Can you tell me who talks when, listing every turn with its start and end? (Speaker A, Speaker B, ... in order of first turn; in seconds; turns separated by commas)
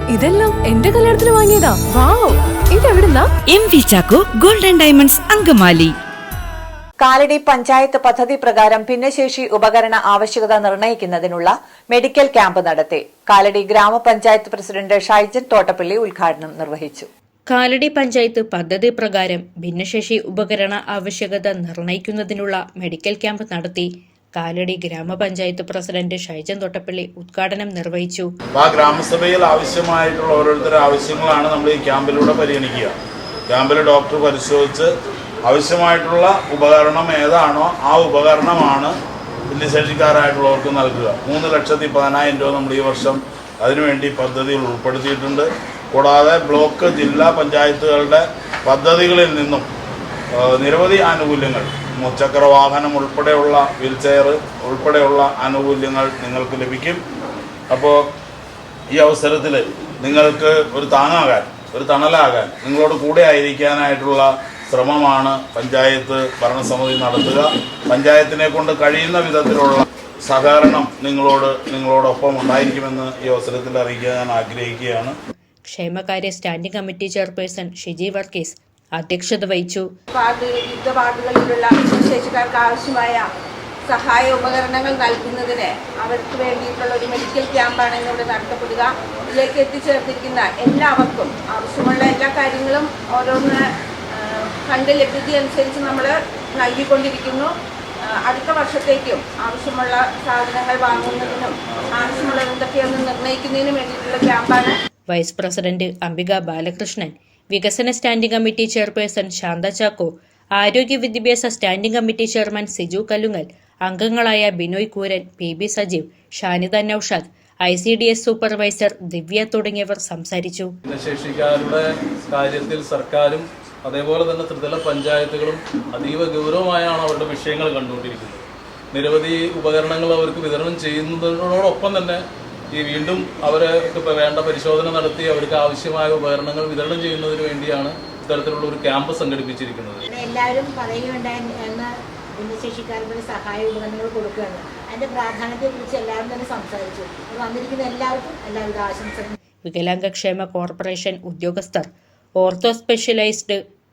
Speaker A: 0.1-3.2, Speaker B: 3.5-6.0, Speaker C: 7.1-17.1, Speaker D: 17.5-28.3, Speaker E: 28.5-33.0, Speaker E: 33.5-34.9, Speaker E: 35.5-39.0, Speaker E: 39.5-49.7, Speaker E: 50.4-57.0, Speaker E: 57.7-58.0, Speaker E: 58.9-75.1, Speaker D: 75.6-79.9, Speaker F: 80.1-83.3, Speaker F: 83.9-97.5, Speaker F: 98.0-104.7, Speaker G: 100.9-102.3, Speaker D: 105.1-120.7, Speaker G: 120.8-140.0, Speaker H: 140.1-149.3, Speaker D: 149.7-153.6